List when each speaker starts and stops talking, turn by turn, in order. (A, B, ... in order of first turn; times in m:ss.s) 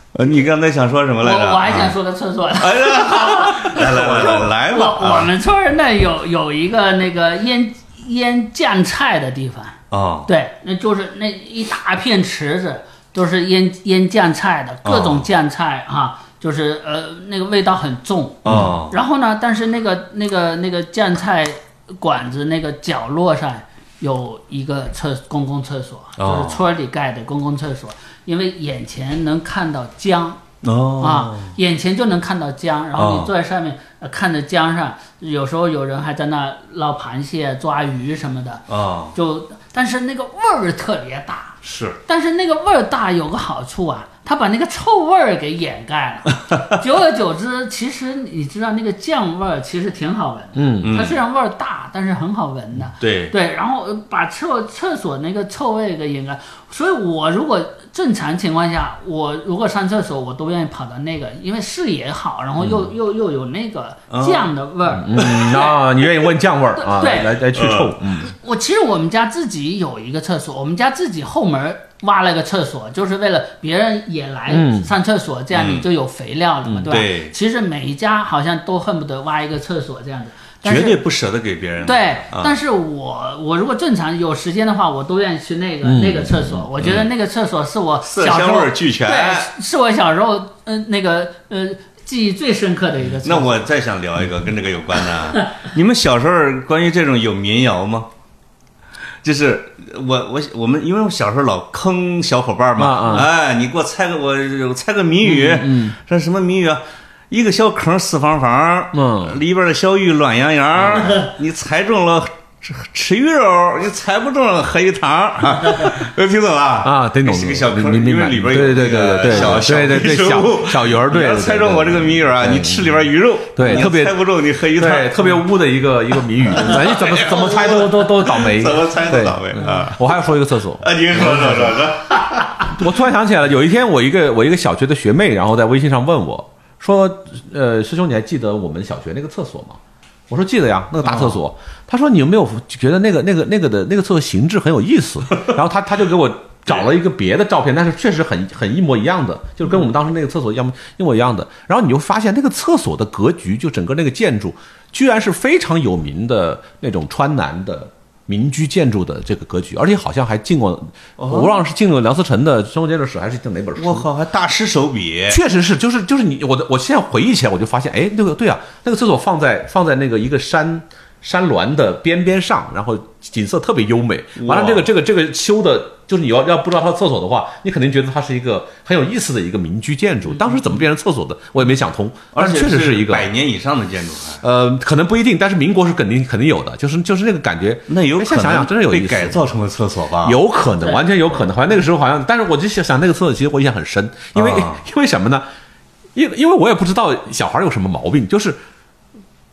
0:00.1-0:01.9 A
0:01.2-0:30.4 B
0:02.6-0:05.3 A
0:09.9-0:10.3 A
0:14.8-0:15.3 A
0:18.4-0:19.0 A
0:18.5-0:18.7 C
0:26.2-0:26.6 A
0:30.6-0:31.6 A
0:31.0-1:05.7 B
0:33.0-0:33.3 A
0:38.7-0:39.2 A
0:41.6-0:42.0 A
0:50.6-0:51.0 C
0:50.8-0:51.2 A
0:53.0-0:53.3 A
1:04.1-1:04.5 A
1:04.9-1:08.3 C
1:05.2-1:05.7 A
1:06.8-1:07.4 B
1:07.5-1:08.0 A
1:08.2-1:21.0 B
1:14.5-1:14.9 C
1:15.5-1:15.9 A
1:16.7-1:17.0 C
1:16.9-1:17.4 A
1:20.6-1:22.6 A
1:21.8-1:33.7 B
1:25.8-1:26.7 C
1:28.0-1:29.5 A
1:33.2-1:38.1 A
1:39.2-2:05.4 A
1:42.8-1:43.3 C
1:45.2-1:45.9 C
1:48.9-1:49.4 C
1:56.8-2:11.8 C
2:06.5-2:10.2 A
2:09.6-2:09.9 B
2:10.8-2:12.7 A
2:12.7-2:44.1 C
2:21.1-2:21.4 A
2:41.2-2:41.6 A
2:43.8-2:45.4 A
2:45.3-3:03.3 C
2:54.4-2:54.9 A
3:02.3-3:04.4 A
3:04.4-3:09.4 C
3:07.9-3:10.4 A
3:10.2-3:15.4 C
3:14.4-3:14.8 A
3:16.2-3:18.6 C